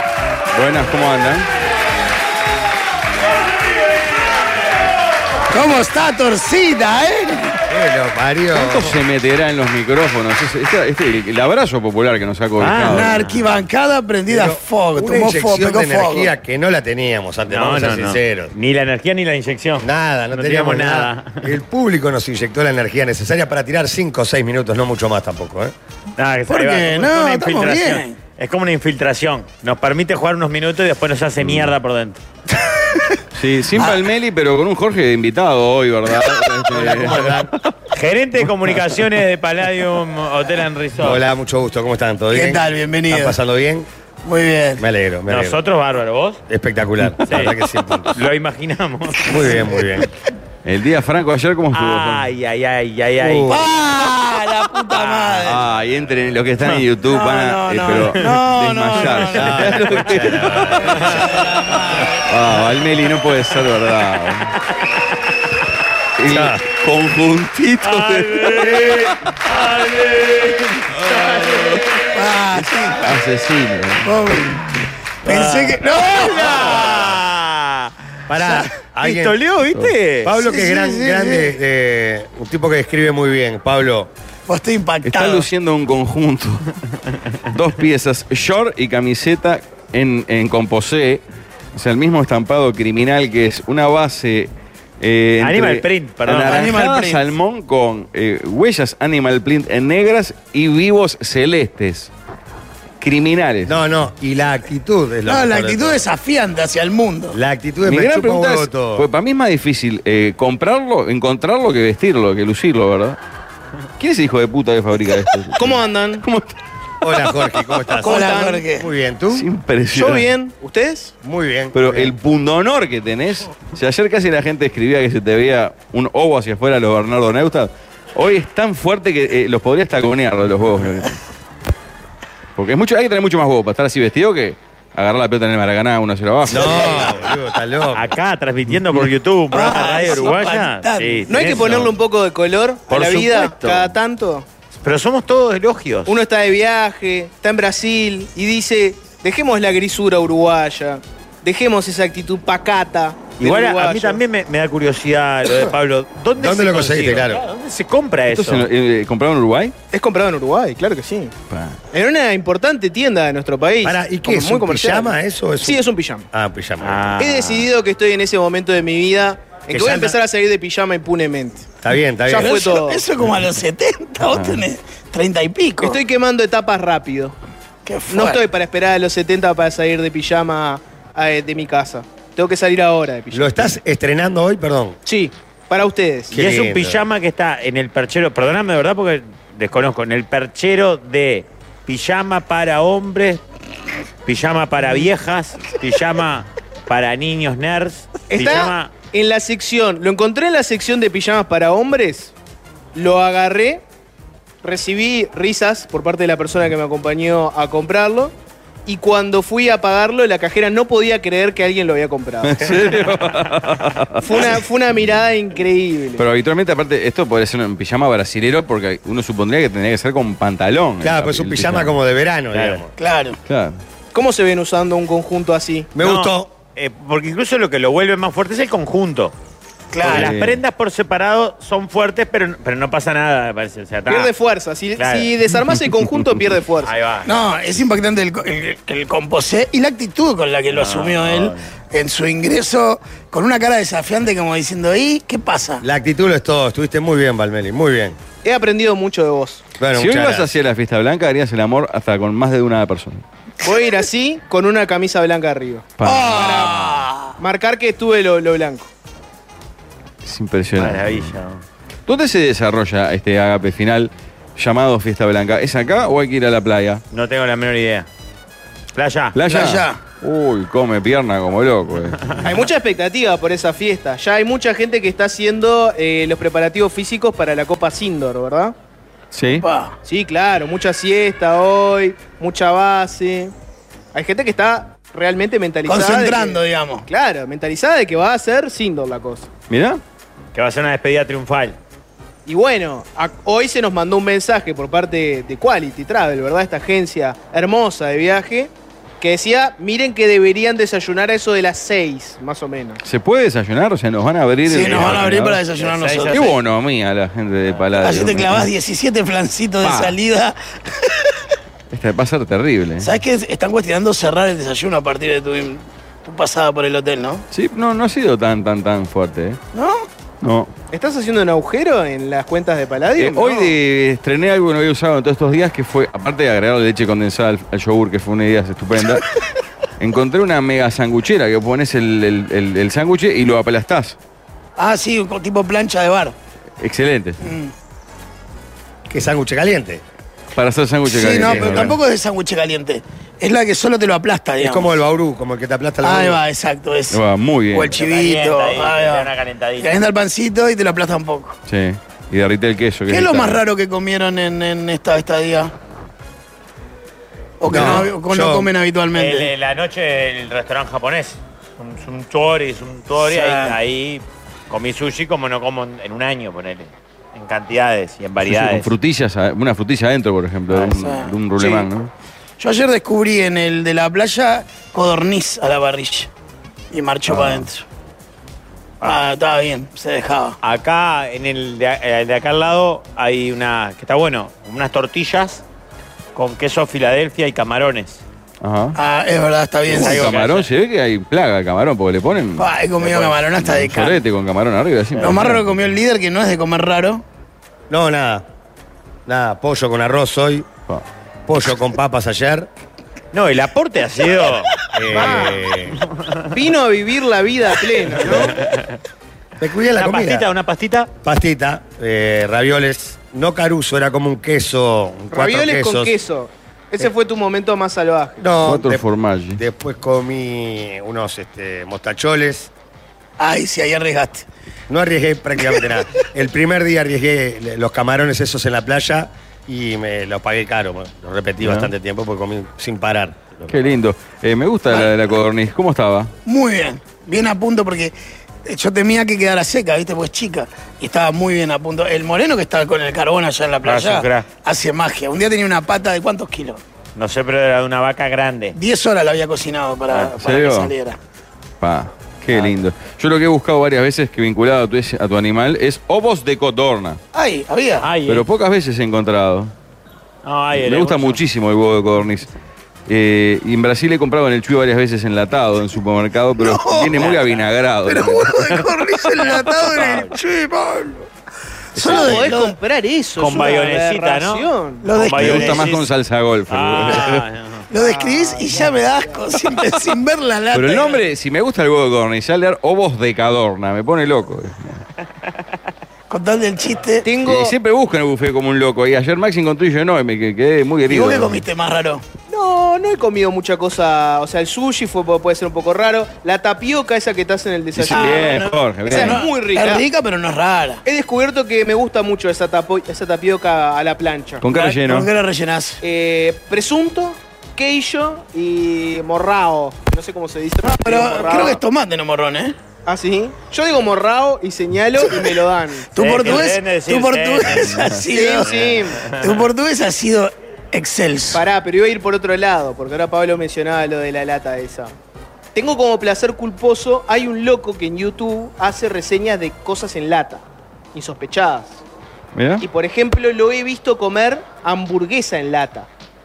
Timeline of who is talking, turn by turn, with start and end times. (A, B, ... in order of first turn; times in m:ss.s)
0:00.5-0:01.5 A
0:05.5-0:07.6 B
0:07.7-0:09.0 C
0:08.5-0:13.2 A
0:12.6-0:13.5 D
0:12.9-0:16.3 B
0:14.3-0:18.5 C
0:17.5-0:21.5 D
0:19.8-0:25.7 C
0:26.2-0:32.2 D
0:26.5-0:28.2 B
0:31.4-0:31.7 A
0:32.6-0:33.0 B
0:33.3-0:37.4 A
0:36.7-0:37.5 C
0:37.9-0:41.2 D
0:41.0-0:43.9 C
0:42.3-0:43.4 B
0:44.2-0:44.8 B
0:44.8-0:45.6 C
0:45.3-0:46.4 D
0:46.5-0:48.2 C
0:47.3-0:47.6 D
0:48.2-0:49.2 D
0:49.2-0:50.1 C
0:50.6-0:52.2 A
0:51.7-0:53.6 D
0:53.2-0:53.6 C
0:53.5-0:55.6 B
0:54.9-0:55.5 D
0:55.4-1:00.8 A
0:57.1-0:59.6 B
0:57.9-0:58.2 D
0:59.3-1:01.2 C
0:59.5-1:00.3 D
1:00.9-1:01.3 D
1:01.0-1:02.2 B
1:02.3-1:04.5 A
1:04.7-1:05.0 D
1:06.2-1:09.0 A
1:06.3-1:06.6 C
1:07.8-1:11.9 D
1:11.0-1:11.8 A
1:12.1-1:13.2 B
1:12.6-1:14.2 A
1:14.0-1:14.6 B
1:15.2-1:17.1 B
1:15.2-1:17.9 D
1:18.3-1:19.4 C
1:18.4-1:18.7 B
1:19.0-1:20.3 D
1:20.2-1:24.1 C
1:20.4-1:21.5 B
1:24.5-1:25.5 B
1:25.0-1:26.7 A
1:27.5-1:31.2 A
1:31.8-1:42.1 A
1:35.4-1:36.8 D
1:36.4-1:37.3 B
1:43.0-1:43.8 A
1:43.7-1:46.0 C
1:45.3-1:47.4 B
1:47.3-1:49.1 C
1:47.8-1:53.2 A
1:54.0-1:56.5 A
1:55.6-1:56.2 E
1:57.0-1:59.4 C
1:58.0-1:58.9 B
1:58.0-1:58.6 E
1:59.3-2:00.3 A
1:59.9-2:01.1 E
2:01.2-2:02.1 C
2:01.7-2:11.2 A
2:12.6-2:17.2 A
2:16.5-2:18.0 C
2:17.9-2:21.9 D
2:19.5-2:21.6 B
2:21.3-2:24.4 E
2:22.9-2:23.8 D
2:24.8-2:26.1 D
2:26.1-2:34.2 E
2:33.4-2:38.7 D
2:36.4-2:37.4 C
2:38.3-2:39.7 A
2:39.9-2:41.3 E
2:41.5-2:41.8 A
2:41.9-2:46.3 E
2:43.8-2:47.0 C
2:46.8-2:47.7 D
2:47.2-2:51.7 E
2:49.7-2:50.2 C
2:51.8-2:52.6 C
2:52.3-2:53.0 E
2:52.3-2:56.0 B
2:54.3-2:54.6 A
2:55.8-2:57.3 E
2:57.9-2:58.4 B
2:58.1-3:03.7 E
3:03.3-3:05.0 C
3:05.0-3:06.4 E
3:06.3-3:07.0 C
3:06.3-3:13.4 D
3:14.3-3:18.9 D
3:18.3-3:22.3 E
3:23.0-3:23.8 E
3:24.6-3:28.3 E
3:28.9-3:32.8 E
3:32.4-3:34.6 A
3:34.2-3:36.2 E
3:36.2-3:41.9 A
3:41.0-3:42.9 C
3:42.5-3:42.8 D
3:43.0-3:43.4 B
3:43.5-3:43.8 A
3:44.1-3:45.9 E
3:45.9-3:46.5 C
3:46.0-3:49.3 D
3:49.9-3:50.3 B
3:50.0-3:50.6 A
3:50.0-3:54.3 D
3:54.1-3:56.9 E
3:55.0-3:55.3 D
3:56.8-3:57.4 D
3:57.2-4:05.8 B
4:00.7-4:01.7 D
4:05.8-4:08.2 C
4:08.4-4:09.7 E
4:09.8-4:10.5 C
4:09.9-4:13.2 A
4:13.6-4:18.9 E
4:16.0-4:16.6 A
4:16.0-4:17.4 B
4:20.2-4:21.3 A
4:20.8-4:21.6 D
4:22.1-4:27.0 A
4:27.1-4:28.1 D
4:29.0-4:29.4 D
4:29.4-4:32.5 A
4:29.5-4:30.0 B
4:32.4-4:38.7 E
4:39.3-4:39.7 A
4:39.5-4:40.0 B
4:40.0-4:43.5 E
4:44.1-4:49.5 E
4:45.8-4:47.0 B
4:49.7-4:50.0 A
4:50.5-4:51.8 D
4:52.5-5:03.0 E
5:03.0-5:05.6 A
5:04.7-5:06.5 B
5:05.1-5:06.6 D
5:06.3-5:08.7 A
5:08.0-5:11.3 B
5:09.8-5:10.2 A
5:11.9-5:13.1 A
5:13.0-5:17.4 B
5:17.5-5:19.6 A
5:19.7-5:20.1 B
5:20.4-5:20.7 A
5:20.9-5:23.7 E
5:23.2-5:29.2 A
5:30.0-5:34.2 A
5:34.8-5:36.3 B
5:36.8-5:37.4 A
5:37.4-5:37.7 B
5:39.1-5:40.0 C
5:40.6-5:42.0 A
5:41.1-5:44.9 B
5:41.4-5:41.9 C
5:44.6-5:46.4 C
5:46.0-5:47.2 B
5:47.1-5:47.9 A
5:47.7-5:51.6 B
5:47.9-5:50.0 D
5:51.7-5:53.6 A
5:53.1-5:55.7 B
5:57.6-5:59.5 B
5:57.7-5:58.7 C
5:57.7-5:58.1 A
5:59.1-6:08.9 D
6:03.2-6:03.8 B
6:08.5-6:12.1 A
6:10.7-6:11.9 B
6:12.6-6:16.3 B
6:16.9-6:17.8 B
6:17.3-6:17.7 A
6:19.0-6:20.6 B
6:20.6-6:25.6 D
6:26.4-6:28.2 D
6:28.6-6:29.0 A
6:29.0-6:30.3 B
6:29.9-6:35.9 A
6:29.9-6:30.7 D
6:32.6-6:34.2 B
6:35.2-6:35.4 D
6:35.2-6:37.2 B
6:37.9-6:38.4 C
6:39.3-6:40.7 C
6:41.5-6:42.7 C
6:43.3-6:44.7 D
6:44.9-6:46.0 C
6:45.1-6:45.7 E
6:46.5-6:48.6 E
6:48.3-6:48.9 D
6:49.6-6:50.5 C
6:50.0-6:51.1 D
6:51.2-6:56.2 C
6:55.3-6:58.5 E
6:58.4-7:02.7 C
6:58.6-6:59.6 A
7:03.4-7:04.4 B
7:04.9-7:13.8 C
7:11.6-7:11.9 A
7:13.7-7:16.3 A
7:16.5-7:18.1 B
7:18.6-7:26.8 B
7:23.8-7:24.5 D
7:27.2-7:28.8 D
7:28.8-7:31.2 B
7:30.4-7:30.9 A
7:31.8-7:37.2 A
7:32.5-7:32.8 D
7:37.3-7:38.1 B
7:38.0-7:38.4 D
7:38.3-7:39.7 A
7:40.4-7:41.4 D
7:40.8-7:42.5 A
7:43.1-7:48.8 A
7:46.6-7:47.4 B
7:47.2-7:47.6 D
7:48.1-7:51.3 B
7:49.9-7:50.4 D
7:52.0-7:52.5 A
7:52.0-7:52.8 B
7:52.0-7:55.1 E
7:53.4-7:56.1 D
7:55.0-7:55.9 B
7:55.4-7:57.4 A
7:56.7-7:57.9 D
7:57.9-8:01.2 B
7:58.0-7:59.4 E
8:00.7-8:05.0 A
8:06.3-8:07.3 B
8:07.2-8:07.8 E
8:07.4-8:11.6 A
8:11.1-8:12.2 B
8:12.5-8:20.1 E
8:18.0-8:19.4 A
8:18.1-8:21.0 B
8:21.0-8:24.6 E
8:24.6-8:25.3 A
8:24.7-8:26.0 B
8:26.0-8:31.8 E
8:30.8-8:32.8 B
8:33.1-8:36.1 E
8:35.2-8:35.6 B
8:36.1-8:38.7 B
8:36.2-8:38.1 D
8:37.9-8:38.2 A
8:38.3-8:39.2 E
8:38.6-8:39.6 D
8:39.3-8:41.6 B
8:41.5-8:45.1 E
8:45.8-8:52.0 E
8:52.6-8:52.8 A
8:52.8-8:56.1 E